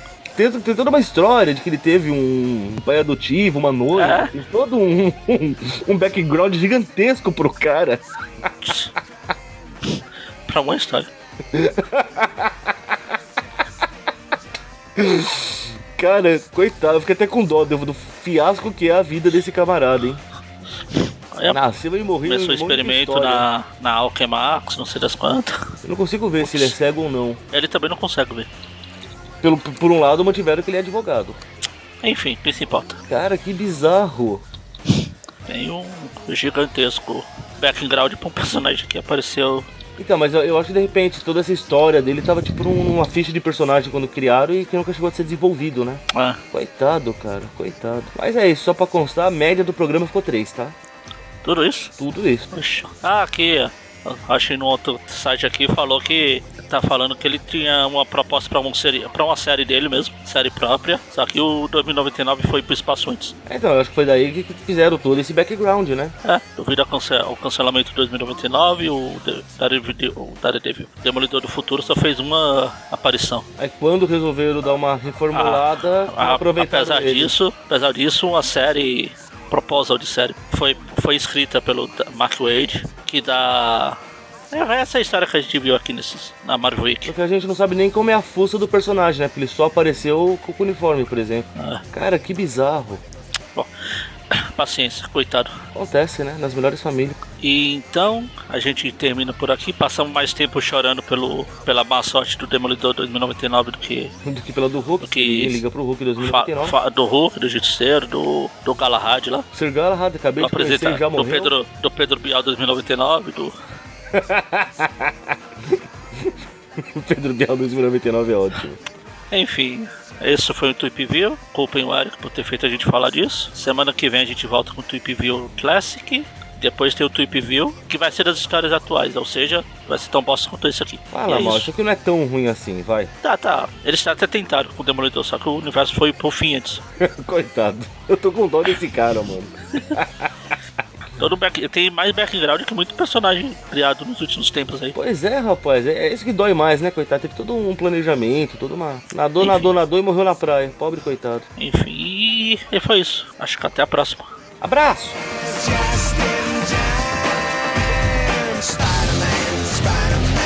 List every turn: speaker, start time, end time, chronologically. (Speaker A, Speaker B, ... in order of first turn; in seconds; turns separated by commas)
Speaker A: 0.3-8.0, Speaker B: 3.9-4.3, Speaker B: 8.6-8.9, Speaker B: 9.8-11.1, Speaker A: 11.5-13.1, Speaker A: 14.9-20.2, Speaker B: 21.3-21.6, Speaker A: 21.5-23.4, Speaker B: 22.2-25.7, Speaker A: 25.8-27.4, Speaker B: 26.4-26.7, Speaker B: 27.5-28.5, Speaker A: 29.4-31.4, Speaker B: 32.0-33.0, Speaker A: 33.1-34.4, Speaker B: 35.5-39.7, Speaker A: 40.0-46.0, Speaker B: 46.1-46.4, Speaker A: 46.5-50.7, Speaker B: 51.4-51.9, Speaker A: 52.0-52.5, Speaker B: 52.5-63.3, Speaker A: 63.5-66.1, Speaker B: 66.2-73.5, Speaker A: 73.6-77.3, Speaker B: 75.3-84.0, Speaker B: 84.5-87.1, Speaker A: 87.0-93.0, Speaker B: 91.5-91.8, Speaker B: 94.3-95.6, Speaker A: 95.7-97.2, Speaker B: 97.4-104.1, Speaker A: 104.2-106.8, Speaker B: 105.0-105.6, Speaker B: 106.2-109.5, Speaker A: 109.5-111.5, Speaker B: 110.4-113.5, Speaker A: 114.1-118.8, Speaker B: 119.3-131.7, Speaker A: 131.1-133.1, Speaker B: 133.2-136.8, Speaker A: 137.0-140.3, Speaker B: 141.2-144.9, Speaker A: 144.9-151.4, Speaker B: 149.4-149.7, Speaker B: 151.6-154.3, Speaker A: 154.6-155.2